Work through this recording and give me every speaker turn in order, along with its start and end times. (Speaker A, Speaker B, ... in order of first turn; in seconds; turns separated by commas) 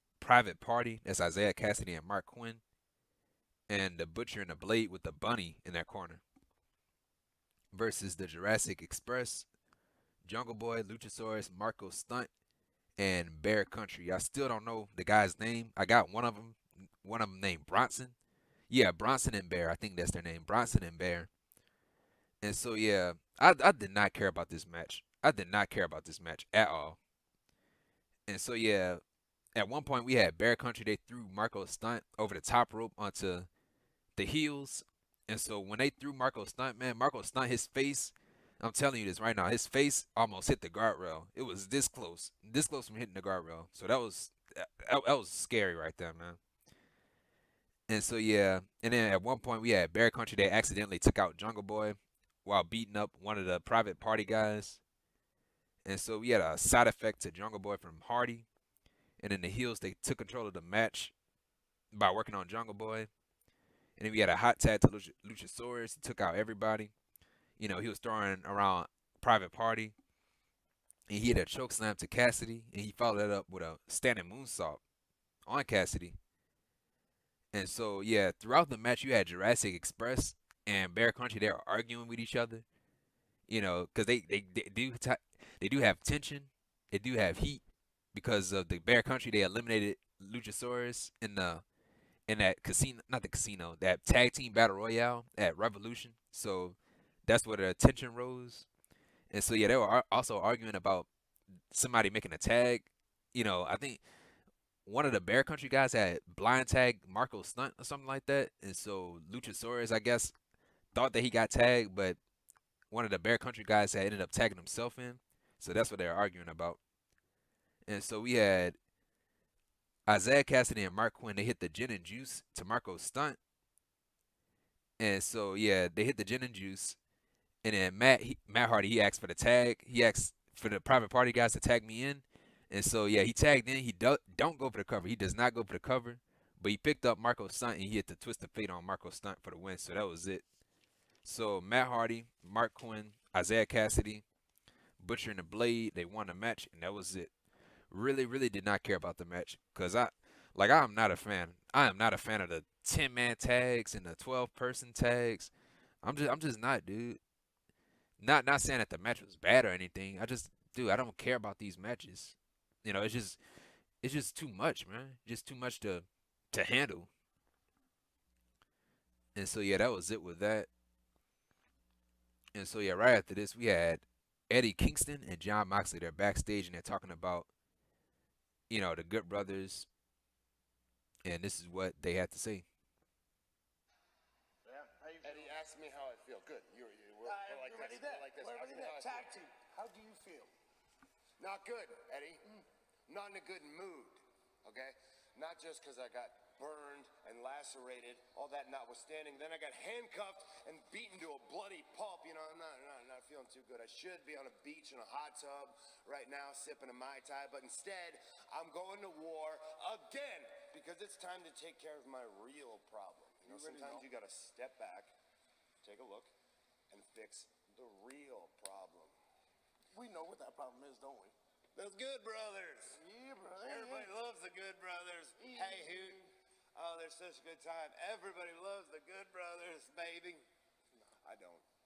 Speaker A: 0.2-2.6, Speaker A: 3.7-6.2, Speaker A: 7.7-9.5, Speaker A: 10.2-12.3, Speaker A: 13.0-18.1, Speaker A: 18.7-21.3, Speaker A: 22.4-27.0, Speaker A: 28.3-29.0, Speaker A: 29.5-33.5, Speaker A: 34.1-46.4, Speaker A: 47.9-54.8, Speaker A: 55.8-58.5, Speaker A: 59.2-61.1, Speaker A: 61.9-63.1, Speaker A: 64.0-66.9, Speaker A: 67.6-69.9, Speaker A: 71.1-74.8, Speaker A: 75.5-76.2, Speaker A: 77.5-82.6, Speaker A: 83.5-87.6, Speaker A: 88.1-91.6, Speaker A: 92.3-98.7, Speaker A: 99.3-101.1, Speaker A: 101.7-104.0, Speaker A: 104.8-110.3, Speaker A: 110.9-112.2, Speaker A: 112.9-116.8, Speaker A: 117.8-118.8, Speaker A: 120.1-123.4, Speaker A: 125.0-127.0, Speaker A: 127.6-140.4, Speaker A: 141.2-144.2, Speaker A: 145.0-147.3, Speaker A: 147.9-155.5, Speaker A: 156.0-157.2, Speaker A: 158.2-163.4, Speaker A: 164.0-167.1, Speaker A: 169.3-170.7, Speaker A: 172.5-177.5, Speaker A: 178.7-179.9, Speaker A: 181.2-182.6, Speaker B: 184.6-185.6, Speaker C: 185.2-189.3, Speaker B: 187.2-190.5, Speaker C: 191.4-192.4, Speaker C: 193.1-215.1, Speaker B: 213.4-214.1, Speaker C: 215.8-216.3, Speaker C: 216.9-219.2, Speaker B: 219.9-221.3, Speaker C: 221.7-223.0, Speaker B: 222.9-224.1, Speaker C: 223.6-226.2, Speaker B: 225.4-226.2, Speaker C: 226.7-230.4, Speaker C: 231.2-231.7